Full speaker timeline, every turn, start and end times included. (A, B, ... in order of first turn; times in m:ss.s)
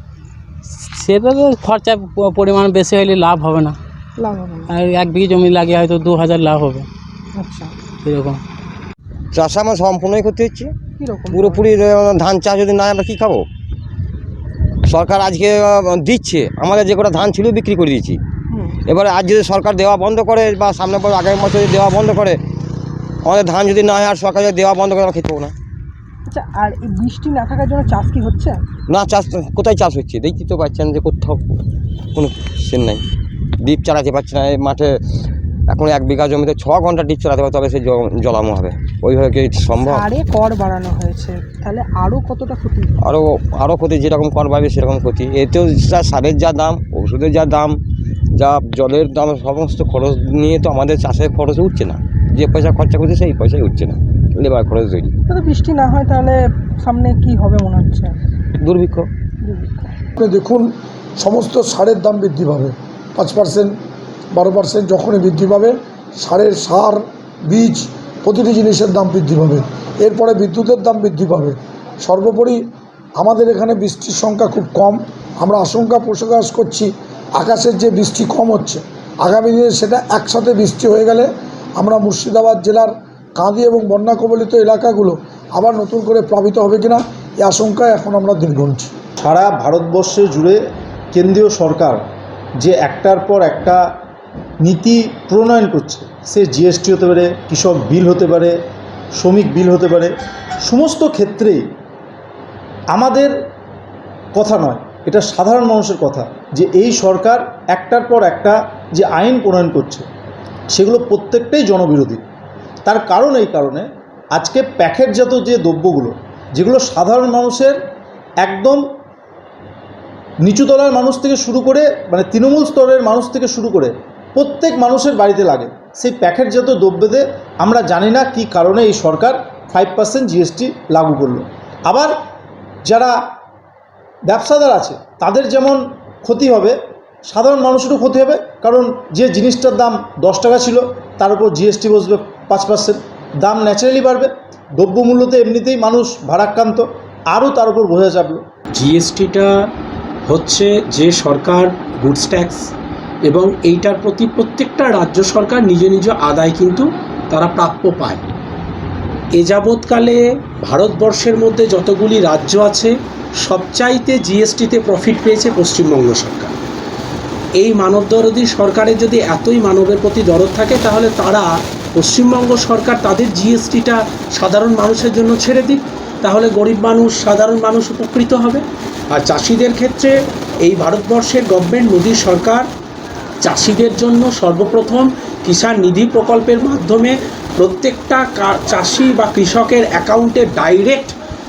0:00.7-0:03.8 A
0:04.2-0:04.8 B
0:04.7-0:06.9 A
0:07.3-0:07.7 B
0:08.0-0:08.4 A
0:09.3-0:10.7 C
0:11.0-0:11.8 B
0:11.3-0:13.4 C
0:14.9-0:18.2 C
0:18.5-0:18.8 B
0:18.9-0:22.4 C
0:23.2-0:25.5 C
0:26.3-0:28.6 B
0:28.9-0:31.4 C
0:32.1-0:33.0 C
0:33.6-0:35.0 C
0:35.7-0:39.9 C
0:39.8-0:42.9 B
0:43.0-0:47.8 C
0:48.3-0:55.1 C
0:55.3-0:58.1 B
0:58.6-0:59.1 C
0:59.4-0:59.9 B
1:00.2-1:03.8 D
1:04.3-1:12.6 D
1:13.2-1:28.9 D
1:29.2-1:30.6 E
1:31.1-1:32.0 E
1:32.6-1:33.8 E
1:34.6-1:38.6 E
1:39.2-1:40.1 E
1:40.6-1:41.6 E
1:42.9-1:43.3 E
1:44.3-1:50.1 E
1:50.7-1:52.2 E
1:52.8-1:57.8 E
1:58.4-1:58.8 E
2:00.4-2:12.1 E
2:12.8-2:13.1 E
2:14.3-2:28.4 E
2:28.7-2:29.5 F
2:30.2-2:32.7 F
2:33.2-2:38.2 F
2:39.3-2:46.6 F
2:47.6-3:02.7 F
3:03.4-3:11.2 F